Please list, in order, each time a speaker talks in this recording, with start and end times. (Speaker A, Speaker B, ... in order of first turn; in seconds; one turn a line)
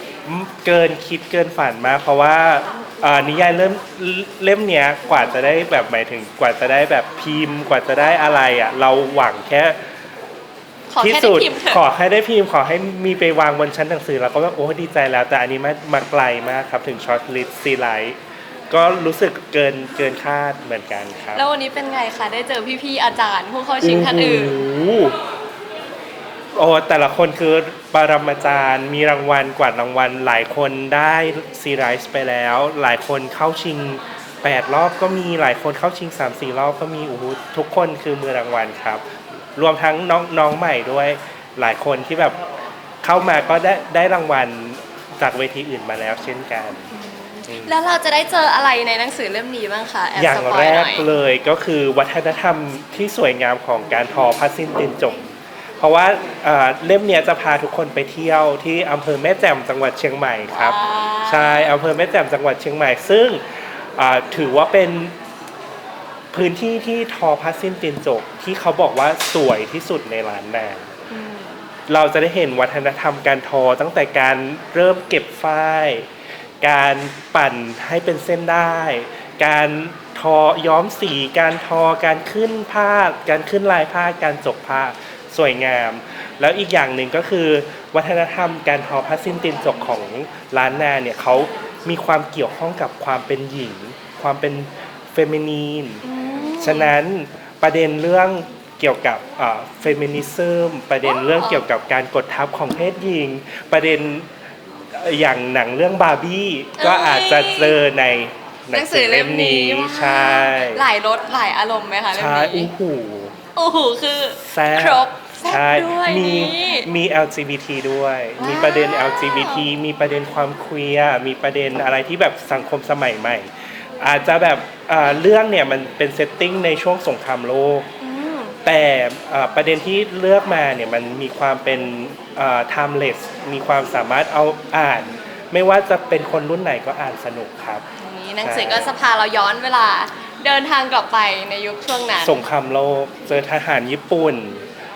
Speaker A: 0.3-9.8
Speaker B: 10.9-11.8
Speaker A: 11.0-18.2
Speaker A: 18.7-21.4
Speaker B: 21.4-24.6
Speaker A: 23.8-25.2
Speaker A: 26.6-39.0
Speaker A: 39.6-42.4
Speaker A: 43.0-46.9
Speaker B: 46.9-51.1
Speaker A: 47.5-47.8
Speaker A: 50.2-55.3
Speaker A: 55.8-60.8
Speaker B: 60.5-61.8
Speaker A: 61.3-63.4
Speaker A: 64.0-65.1
Speaker A: 66.3-70.9
Speaker B: 71.1-71.6
Speaker A: 71.9-76.1
Speaker A: 76.6-96.0
Speaker B: 96.0-96.9
Speaker A: 96.6-104.3
Speaker B: 101.0-101.7
Speaker A: 104.9-110.8
Speaker B: 106.8-107.8
Speaker B: 108.7-112.7
Speaker A: 112.1-113.4
Speaker B: 113.6-116.9
Speaker A: 114.4-127.9
Speaker B: 118.4-119.7
Speaker B: 128.0-128.6
Speaker A: 128.7-137.8
Speaker B: 138.0-142.4
Speaker A: 138.4-138.9
Speaker A: 142.2-144.6